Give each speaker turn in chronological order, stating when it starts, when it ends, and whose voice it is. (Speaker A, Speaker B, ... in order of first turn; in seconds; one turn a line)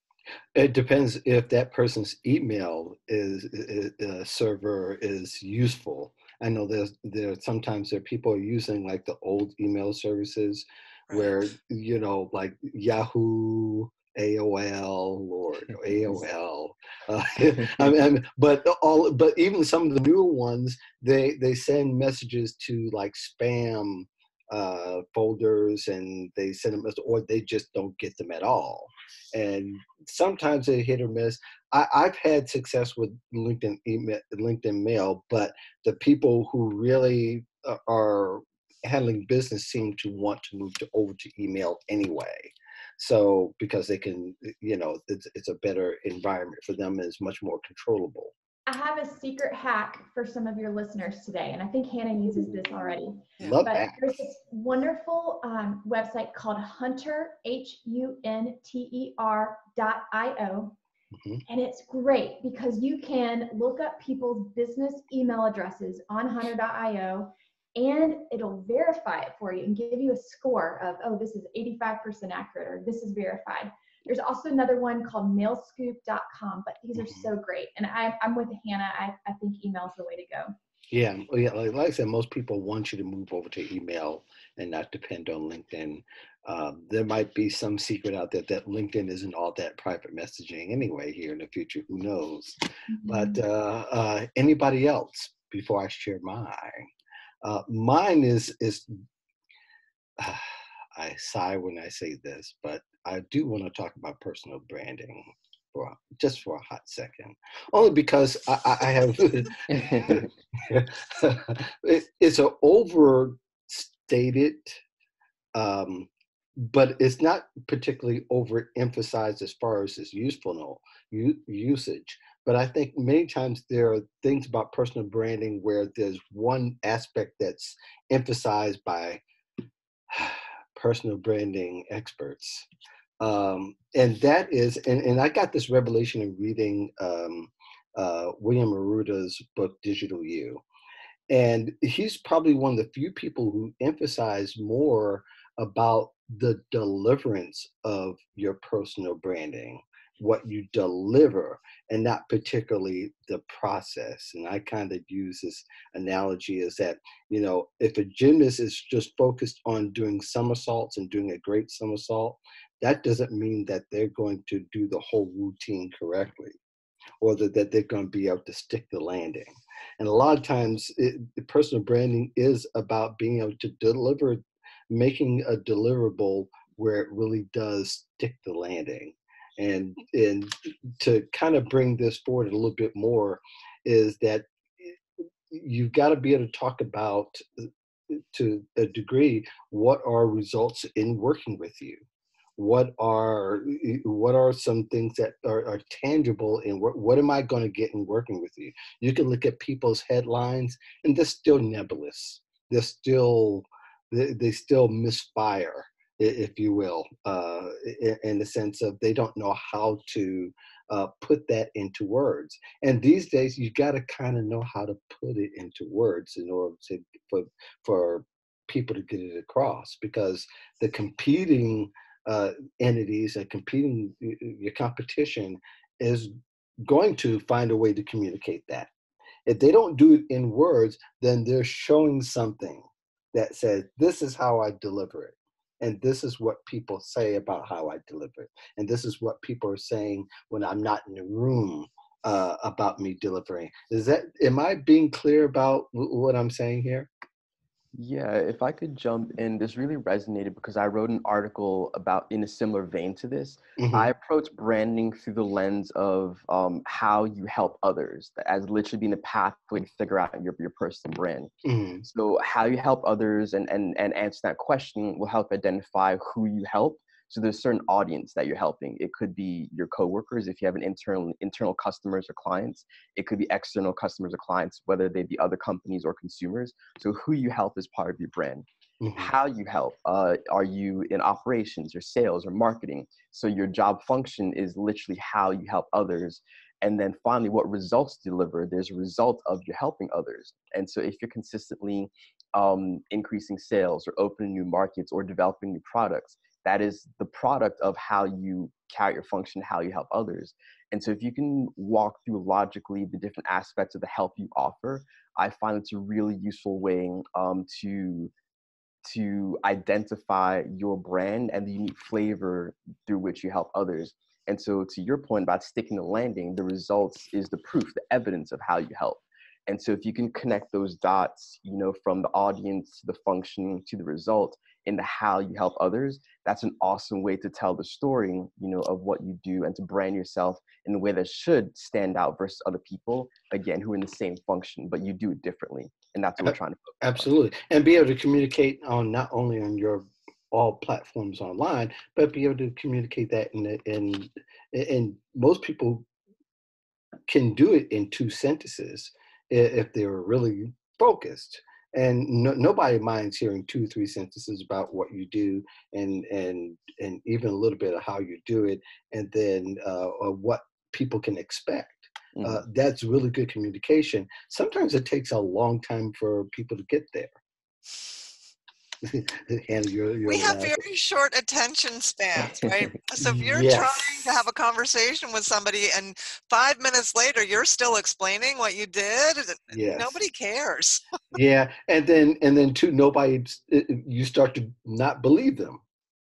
Speaker A: 0.6-48.3
Speaker B: 11.1-11.4
Speaker C: 48.7-60.8
Speaker A: 53.4-54.2
Speaker A: 61.2-61.4
Speaker C: 61.5-80.5
Speaker A: 77.0-77.3
Speaker A: 80.9-96.9
Speaker C: 92.9-93.4
Speaker A: 97.4-98.9
Speaker A: 100.2-114.8
Speaker D: 109.7-110.3
Speaker A: 115.5-129.2
Speaker A: 130.1-132.7
Speaker A: 133.2-140.6
Speaker A: 141.3-166.6
Speaker A: 167.2-185.0
Speaker A: 185.5-192.0
Speaker A: 192.6-226.3
Speaker A: 226.8-228.9
Speaker A: 229.5-247.1
Speaker D: 247.9-261.5
Speaker A: 253.8-254.1
Speaker A: 261.6-262.1
Speaker D: 262.1-278.6
Speaker A: 279.0-279.3
Speaker D: 279.2-308.3
Speaker D: 309.1-337.3
Speaker A: 336.4-346.1
Speaker A: 347.3-367.4
Speaker D: 362.4-362.6
Speaker A: 369.0-370.8
Speaker B: 370.3-381.0
Speaker A: 373.2-374.0
Speaker A: 379.7-380.2
Speaker A: 381.3-385.8